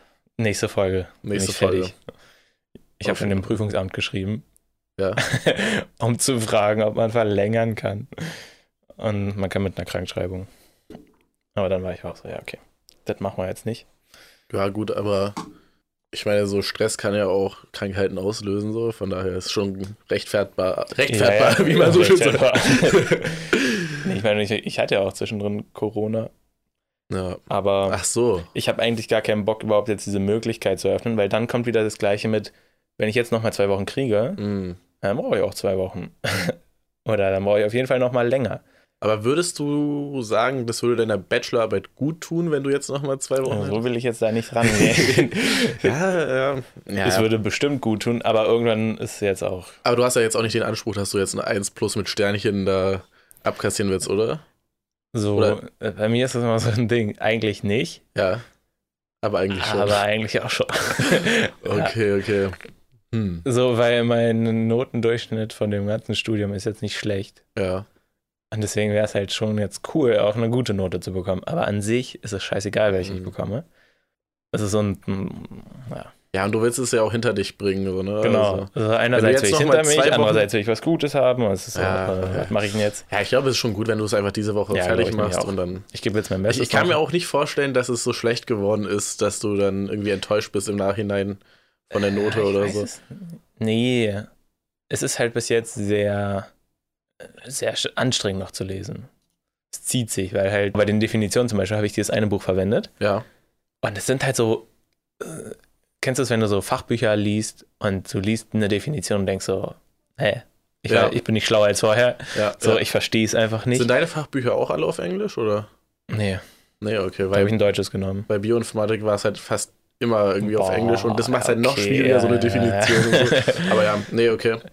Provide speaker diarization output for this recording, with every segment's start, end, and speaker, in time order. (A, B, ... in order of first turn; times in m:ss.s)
0:00.4-0:01.9 A
0:01.2-0:01.9 B
0:03.0-0:04.4 A
0:03.0-0:03.5 B
0:05.2-0:08.5 A
0:09.0-0:10.5 A
0:11.6-0:13.9 A
0:14.5-0:15.4 B
0:16.1-0:24.0 B
0:21.1-0:26.3 A
0:27.1-0:28.5 B
0:27.5-0:28.0 A
0:28.5-0:34.4 A
0:34.4-0:34.8 B
0:35.0-0:38.6 A
0:39.0-0:43.8 B
0:43.5-0:46.0 A
0:44.6-0:47.3 B
0:47.0-0:49.8 A
0:49.8-0:54.4 B
0:55.1-0:58.0 A
0:58.1-0:58.4 B
0:59.2-1:00.0 B
0:59.5-1:02.0 A
1:01.6-1:02.6 B
1:03.1-1:03.4 B
1:03.4-1:07.4 A
1:07.6-1:07.9 B
1:08.5-1:13.6 A
1:13.0-1:13.3 B
1:14.5-1:16.1 A
1:16.3-1:20.5 B
1:18.2-1:23.0 A
1:21.8-1:25.9 B
1:24.7-1:27.0 A
1:26.5-1:31.4 B
1:31.9-1:32.9 B
1:32.0-1:34.3 A
1:34.9-1:36.5 A
1:37.2-1:39.1 A
1:39.7-1:42.9 A
1:43.0-1:43.2 B
1:43.8-1:44.7 A
1:45.2-1:53.9 A
1:50.9-1:51.2 B
1:52.3-1:52.8 B
1:53.7-1:55.7 B
1:56.1-1:56.4 A
1:56.8-1:57.5 B
1:57.3-1:58.3 A
1:58.3-2:04.6 B
2:00.4-2:03.8 A